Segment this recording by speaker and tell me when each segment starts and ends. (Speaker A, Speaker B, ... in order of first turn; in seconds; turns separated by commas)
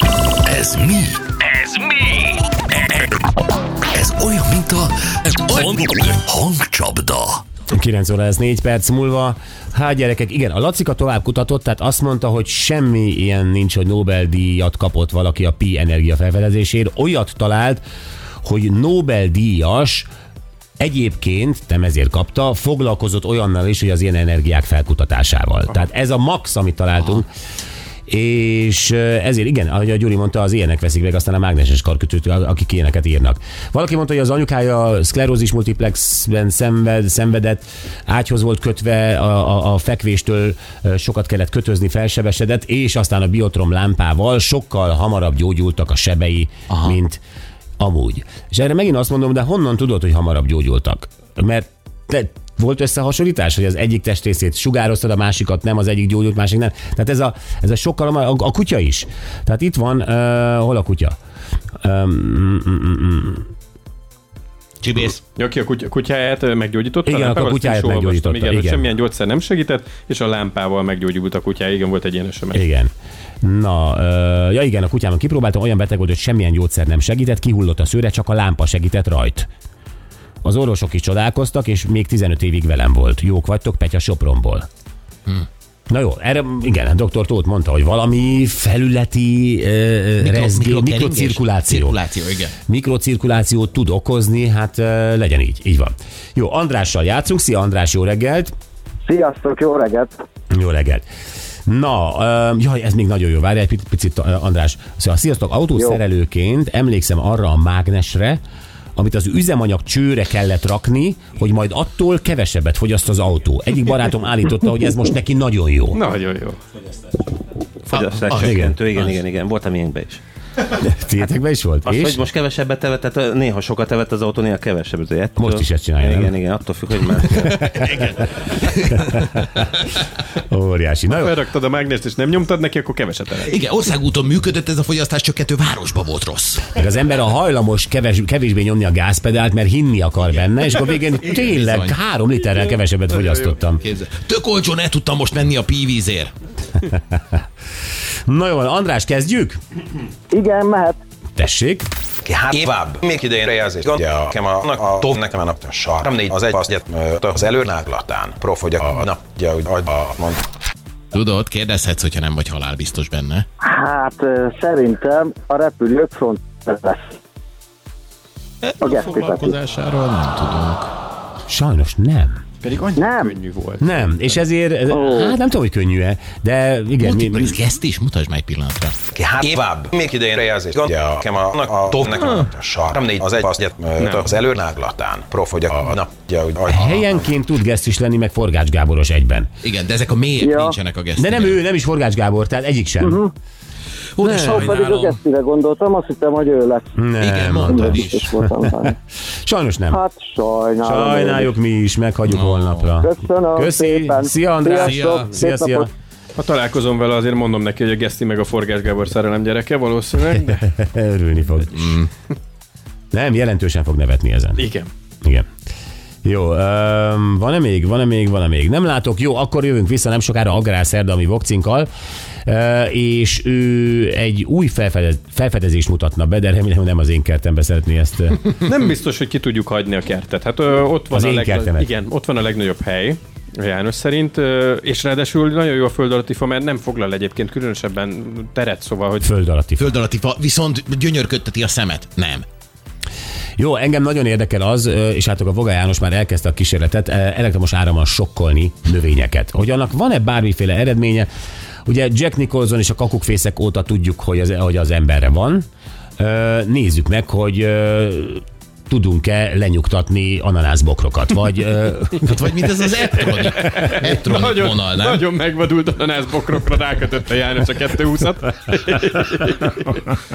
Speaker A: 0.5-1.2, Speaker A: 3.9-4.6, Speaker B: 5.6-6.3, Speaker A: 5.6-7.4, Speaker C: 7.7-17.8, Speaker C: 18.4-20.1, Speaker C: 20.8-27.3, Speaker C: 28.1-47.2, Speaker C: 47.8-61.1, Speaker C: 61.8-63.5, Speaker B: 64.8-65.2, Speaker D: 65.3-72.6, Speaker C: 67.0-68.9, Speaker C: 72.5-72.9, Speaker C: 73.4-79.5, Speaker C: 80.4-84.7, Speaker C: 85.9-92.0, Speaker B: 90.2-92.5, Speaker C: 92.6-98.5, Speaker E: 99.0-100.2, Speaker C: 100.5-101.0, Speaker C: 101.7-108.4, Speaker C: 109.0-116.0, Speaker D: 115.9-116.6, Speaker F: 117.9-120.2, Speaker B: 117.9-119.1, Speaker C: 118.3-118.8, Speaker C: 120.7-122.2, Speaker F: 121.8-127.6, Speaker C: 125.4-126.3, Speaker B: 127.4-129.4, Speaker C: 127.5-128.1, Speaker C: 129.0-129.7, Speaker C: 130.5-131.3, Speaker D: 131.1-133.5, Speaker B: 133.4-136.7, Speaker C: 136.7-143.8, Speaker B: 140.4-141.9, Speaker B: 143.8-146.3, Speaker C: 148.3-149.6, Speaker E: 150.3-151.0, Speaker C: 151.4-151.9, Speaker G: 152.2-160.4, Speaker B: 161.1-163.4, Speaker E: 163.6-167.1, Speaker B: 168.6-170.9, Speaker E: 168.8-169.5, Speaker C: 171.5-172.4, Speaker D: 172.6-174.3, Speaker E: 173.0-173.3, Speaker C: 173.8-177.6, Speaker E: 174.9-175.3, Speaker B: 177.0-178.9, Speaker G: 179.1-187.2, Speaker D: 184.0-184.3, Speaker C: 186.7-189.5, Speaker B: 189.6-191.6, Speaker E: 190.4-190.8, Speaker C: 191.2-193.2, Speaker E: 193.0-193.3, Speaker B: 194.2-195.2, Speaker E: 194.2-196.8, Speaker C: 196.9-198.4, Speaker B: 197.2-198.2, Speaker E: 197.6-198.9, Speaker C: 199.4-200.0, Speaker E: 199.9-201.5, Speaker C: 200.8-205.9, Speaker B: 202.2-202.9, Speaker E: 203.0-205.9, Speaker B: 204.8-205.3, Speaker D: 206.3-210.7, Speaker C: 210.6-212.0, Speaker B: 211.8-212.1, Speaker C: 213.1-214.6, Speaker D: 214.6-214.9, Speaker C: 216.2-221.9, Speaker C: 222.4-228.5, Speaker D: 228.6-239.2, Speaker C: 231.1-231.8, Speaker C: 239.2-239.9, Speaker B: 239.8-242.4, Speaker C: 243.6-251.3, Speaker C: 251.9-255.7, Speaker C: 256.2-262.5, Speaker B: 262.2-265.2, Speaker D: 263.7-270.0